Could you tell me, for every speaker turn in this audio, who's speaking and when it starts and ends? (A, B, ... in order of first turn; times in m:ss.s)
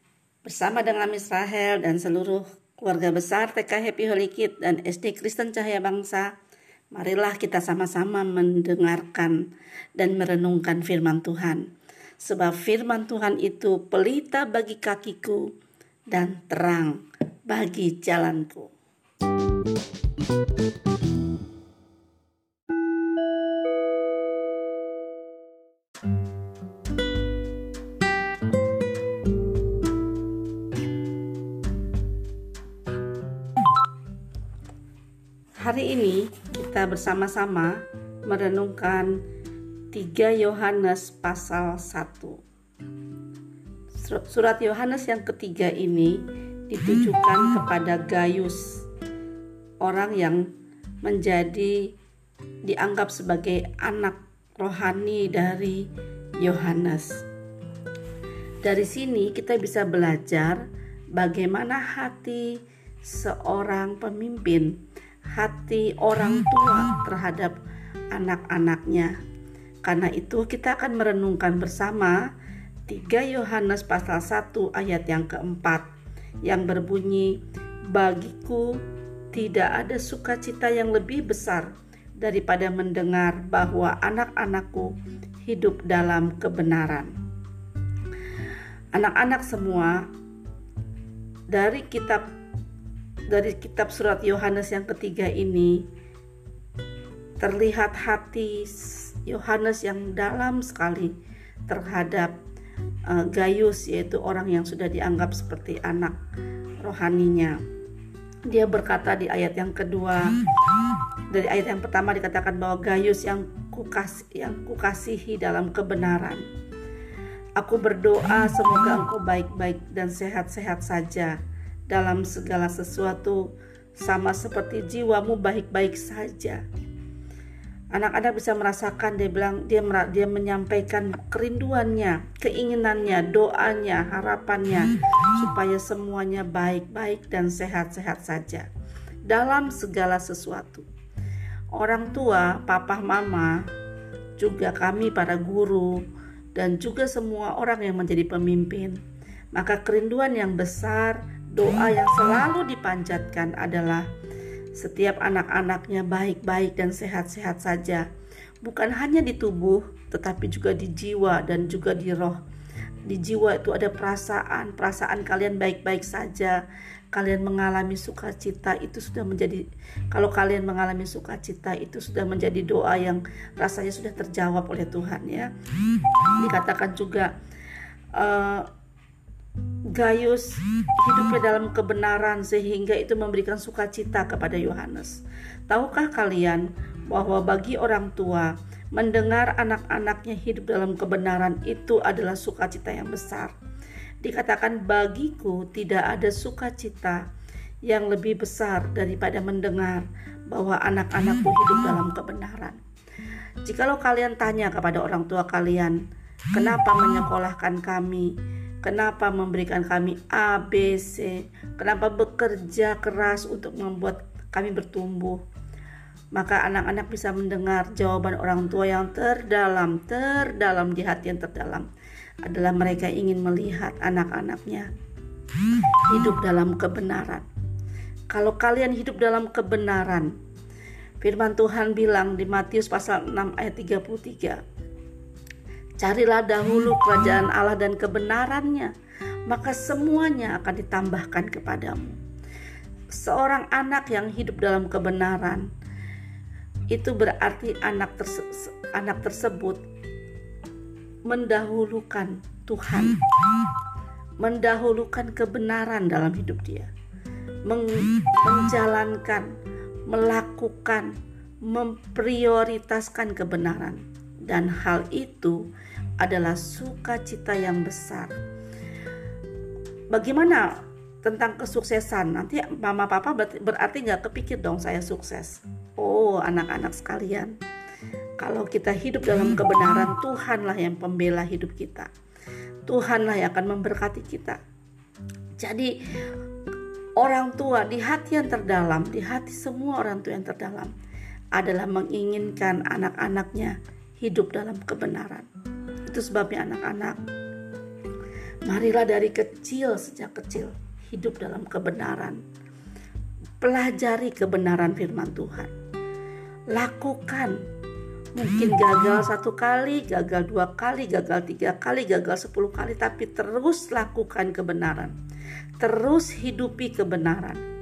0:00.4-0:06.3 A
0:06.9-0:09.5 A
0:10.0-0:15.5 A
0:16.1-0:18.7 A
0:35.6-0:39.2 A
0:39.9-0:42.4 A
0:44.0-0:48.8 A
0:49.8-0:50.5 A
0:51.0-0:51.9 A
0:52.6-0:55.9 A
0:56.4-0:57.2 A
0:58.6-1:00.6 A
1:01.2-1:04.8 A
1:05.3-1:07.6 A
1:08.1-1:09.2 A
1:09.8-1:12.2 A
1:12.9-1:15.9 A
1:16.4-1:27.1 A
1:28.9-1:30.1 A
1:31.5-1:32.2 A
1:33.3-1:35.9 A
1:37.4-1:41.2 A
1:41.7-1:42.3 A
1:43.1-1:46.2 A
1:46.8-1:47.6 A
1:48.5-1:50.4 A
1:51.3-1:56.4 A
1:57.6-2:01.4 A
2:01.9-2:03.5 A
2:04.0-2:06.6 A
2:07.9-2:18.7 A
2:19.3-2:20.9 A
2:21.7-2:23.7 A
2:24.4-2:26.0 A
2:26.6-2:29.0 A
2:29.5-2:34.1 A
2:34.8-2:38.1 A
2:38.6-2:42.4 A
2:43.1-2:46.6 A
2:47.1-2:55.5 A
2:56.4-2:57.3 A
2:58.2-2:58.7 A
2:59.9-3:13.5 A
3:14.2-3:17.2 A
3:17.8-3:22.8 A
3:23.6-3:26.0 A
3:26.5-3:35.4 A
3:36.3-3:41.9 A
3:42.4-3:44.9 A
3:46.1-3:47.5 A
3:48.3-3:50.4 A
3:51.2-3:54.6 A
3:56.0-3:58.9 A
3:59.5-4:02.2 A
4:03.1-4:05.7 A
4:06.9-4:09.8 A
4:11.3-4:13.2 A
4:14.4-4:16.9 A
4:17.7-4:19.5 A
4:20.1-4:25.6 A
4:26.2-4:28.4 A
4:30.1-4:37.6 A
4:38.4-4:42.1 A
4:42.9-4:44.6 A
4:45.6-4:46.0 A
4:47.2-4:50.9 A
4:51.5-4:55.5 A
4:56.1-4:57.2 A
4:58.7-5:02.4 A
5:03.6-5:05.7 A
5:06.7-5:07.6 A
5:08.4-5:15.1 A
5:15.8-5:17.6 A